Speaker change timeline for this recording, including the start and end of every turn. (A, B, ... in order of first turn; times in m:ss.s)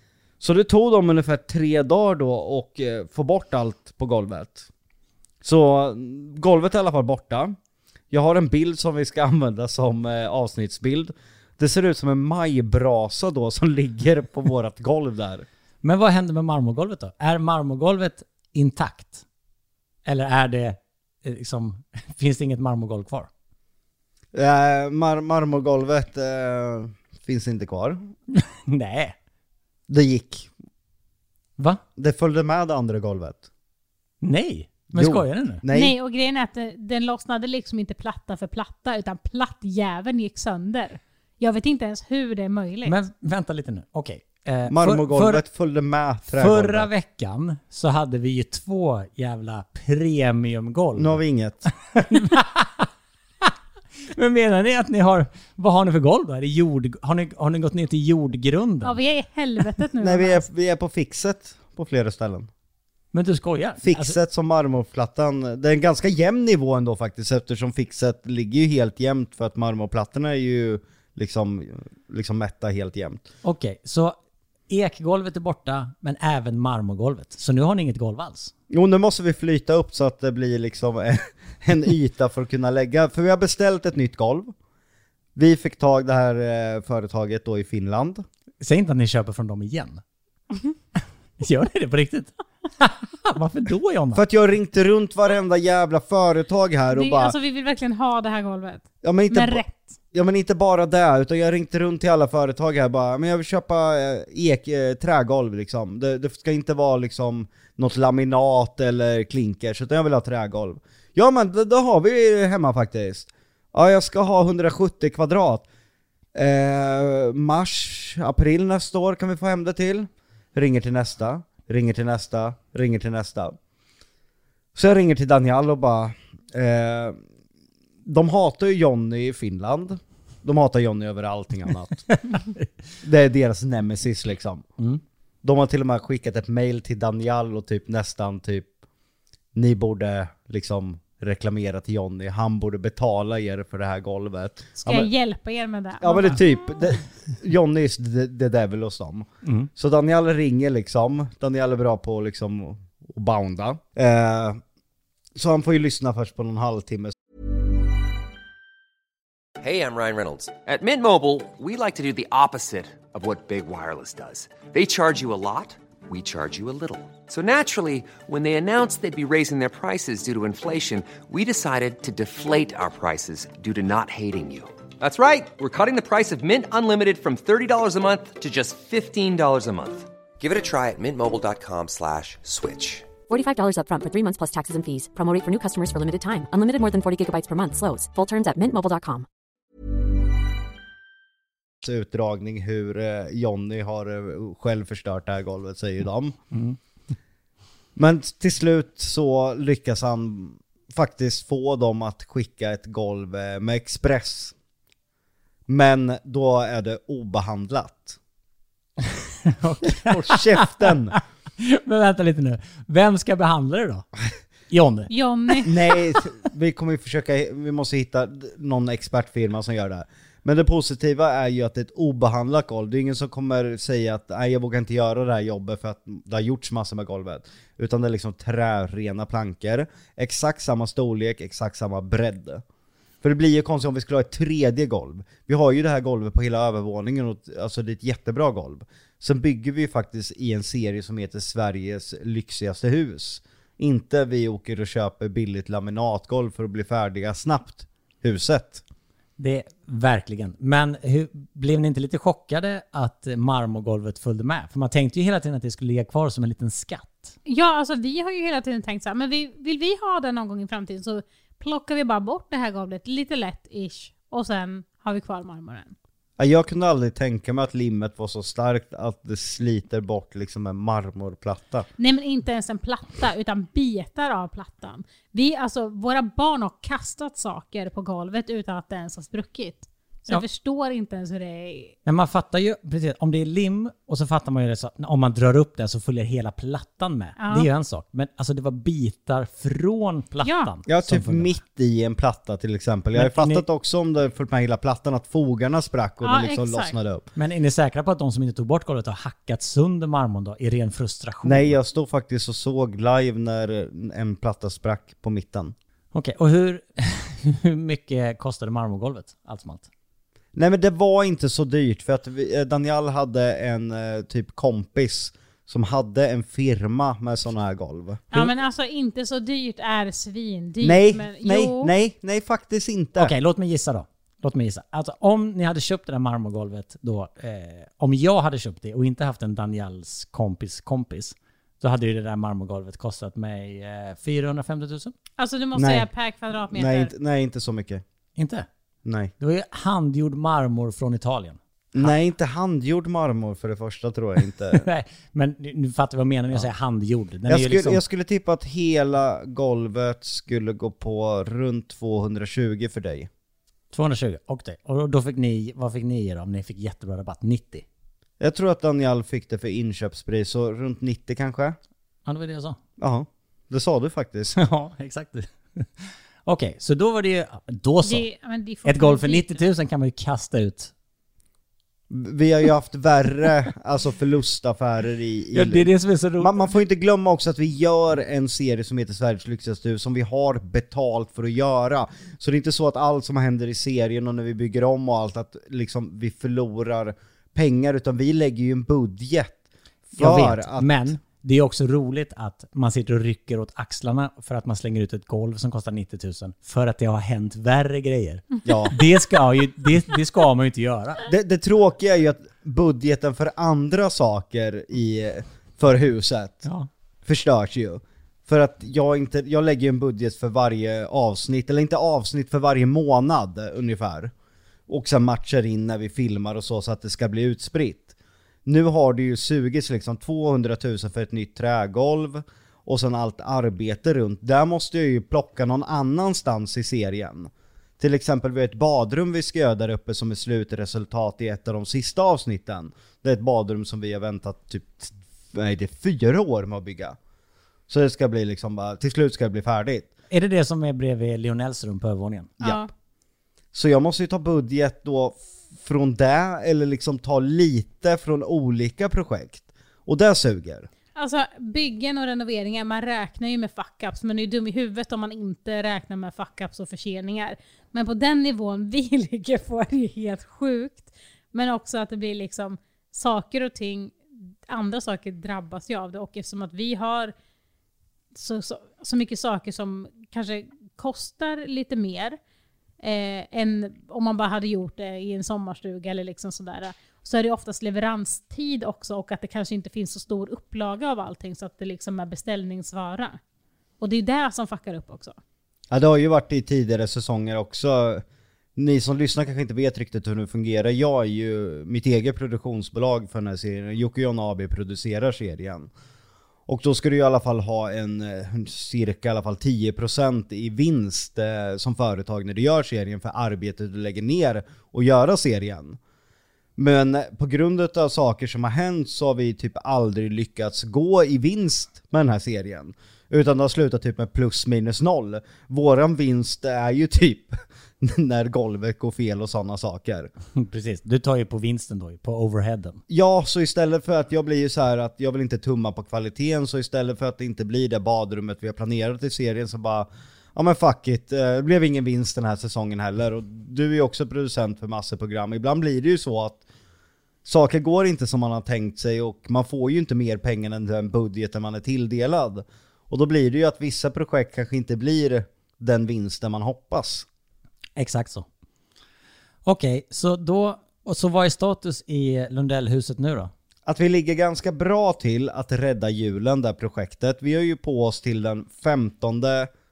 0:00.4-0:04.7 A
0:05.4-0:07.6 A
0:08.1-0:15.4 A
0:15.8-0:19.2 B
0:20.0-0:23.3 B
0:24.3-0:28.1 A
0:28.3-0:29.1 B
0:29.9-0:30.5 A
0:32.0-0:33.5 A
0:34.2-0:35.6 B
0:34.9-0:35.9 A
0:35.7-0:43.0 C
0:42.8-0:45.4 B
0:44.7-0:46.9 A
0:46.3-0:51.2 B
0:50.9-0:51.7 A
0:51.9-0:52.9 B
0:54.1-0:59.0 B
0:58.8-1:00.4 C
1:00.0-1:02.5 A
1:03.1-1:04.2 B
1:03.8-1:13.2 A
1:13.4-1:14.2 B
1:14.7-1:18.5 B
1:18.7-1:24.5 A
1:25.4-1:28.2 A
1:28.6-1:30.0 B
1:31.4-1:34.2 B
1:34.1-1:37.3 A
1:36.9-1:39.9 C
1:39.0-1:55.7 A
1:56.3-2:03.6 A
2:04.7-2:07.2 A
2:08.0-2:12.1 A
2:13.0-2:14.7 A
2:15.4-2:18.7 A
2:19.5-2:25.1 A
2:24.8-2:26.5 C
2:26.0-2:34.6 A
2:29.4-2:29.7 B
2:35.3-2:37.1 A
2:39.6-3:03.1 D
3:03.3-3:09.2 E
3:11.8-3:16.4 A
3:16.5-3:16.8 B
3:18.0-3:24.5 A
3:25.7-3:28.2 A
3:29.4-3:34.0 B
3:29.8-3:31.2 A
3:34.7-3:35.1 B
3:35.1-3:35.7 C
3:35.6-3:52.6 A
3:53.2-4:08.8 A
4:09.4-4:17.3 B
4:17.4-4:25.9 C
4:26.4-4:31.9 A
4:32.0-4:42.0 C
4:42.0-4:51.6 B
4:47.4-4:47.7 C
4:50.4-4:50.7 C
4:50.9-4:57.3 A
4:53.1-4:53.6 B
4:56.2-4:56.9 C
4:57.4-5:01.8 B
5:01.4-5:05.7 A
5:06.1-5:09.9 B
5:10.5-5:18.5 A
5:18.3-5:21.9 C
5:20.8-5:23.3 A
5:23.2-5:35.1 B
5:35.4-5:37.1 C
5:35.7-5:36.1 A
5:36.7-5:38.0 A
5:38.4-5:38.7 B
5:39.0-5:39.3 A
5:39.4-5:42.1 B
5:41.9-5:44.8 A
5:44.7-5:48.0 B
5:47.5-5:53.3 A
5:53.9-5:57.8 B
5:58.4-6:01.8 A
6:02.2-6:02.8 B
6:03.0-6:04.6 A
6:04.5-6:05.9 B
6:06.4-6:08.2 B
6:08.0-6:09.6 C
6:08.8-6:10.9 B
6:12.1-6:29.6 A
6:15.5-6:16.6 B
6:30.1-6:31.1 A
6:30.2-6:41.2 B
6:38.6-6:39.0 A
6:41.3-6:46.6 A
6:47.2-6:54.3 A
6:54.9-6:58.1 A
6:58.6-7:17.2 A
7:17.9-7:20.1 A
7:20.3-7:22.6 B
7:22.6-7:22.9 C
7:23.7-7:30.9 A
7:31.1-7:44.2 C
7:44.7-7:47.3 C
7:48.3-7:52.4 C
7:53.0-8:03.4 C
8:04.0-8:05.4 C
8:05.9-8:08.2 A
8:08.8-8:15.9 A
8:16.7-8:26.0 A
8:26.8-8:40.3 A
8:40.6-8:43.0 B
8:43.1-8:56.6 A
8:57.4-9:07.2 A
9:08.0-9:08.4 B
9:09.6-9:13.5 B
9:13.8-9:19.7 A